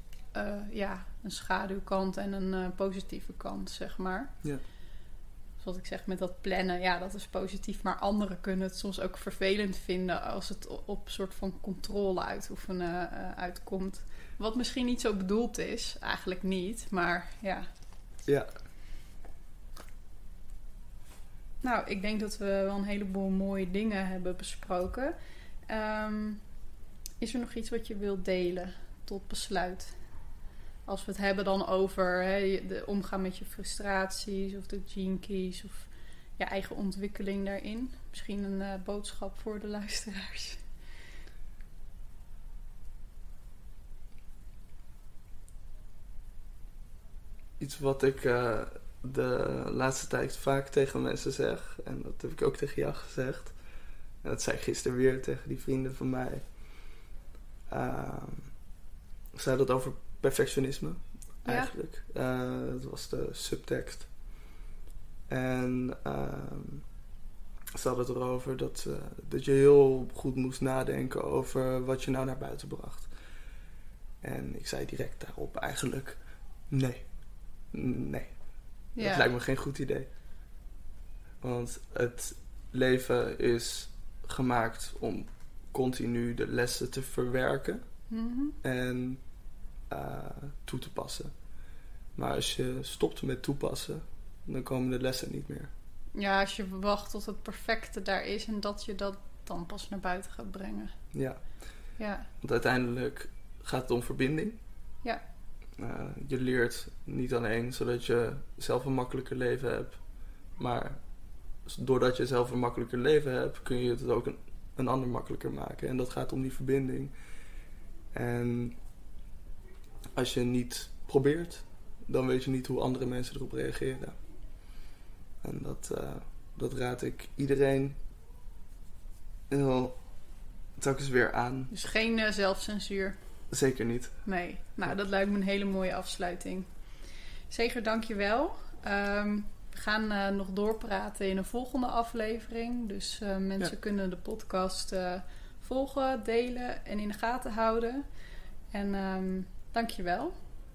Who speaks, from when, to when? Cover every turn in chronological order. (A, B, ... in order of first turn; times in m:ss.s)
0:00.3-0:04.3 A
0:05.6-0:17.7 A
0:21.6-0:25.2 A
0:25.7-0:26.4 A
0:27.2-0:30.0 A
0:30.9-0:40.6 A
0:47.6-0:53.6 B
0:54.2-0:57.1 B
0:57.7-0:58.6 B
0:59.3-1:04.1 B
1:01.4-1:01.7 A
1:05.3-1:06.9 B
1:07.8-1:13.1 B
1:14.2-1:17.1 B
1:17.7-1:18.4 B
1:19.0-1:19.3 A
1:19.0-1:20.1 B
1:21.4-1:27.9 B
1:28.1-1:28.6 A
1:28.6-1:29.2 B
1:29.9-1:31.3 B
1:32.2-1:35.7 B
1:36.2-1:40.9 A
1:41.1-1:41.7 B
1:42.0-1:42.3 A
1:42.4-1:44.6 B
1:45.8-1:50.0 B
1:50.6-1:51.0 B
1:51.6-1:57.2 B
1:58.1-1:58.8 B
2:00.2-2:04.2 B
2:05.4-2:08.0 B
2:09.5-2:10.0 B
2:10.8-2:11.7 B
2:11.7-2:13.2 A
2:13.5-2:14.2 B
2:14.2-2:16.9 A
2:17.5-2:28.1 A
2:28.7-2:30.3 A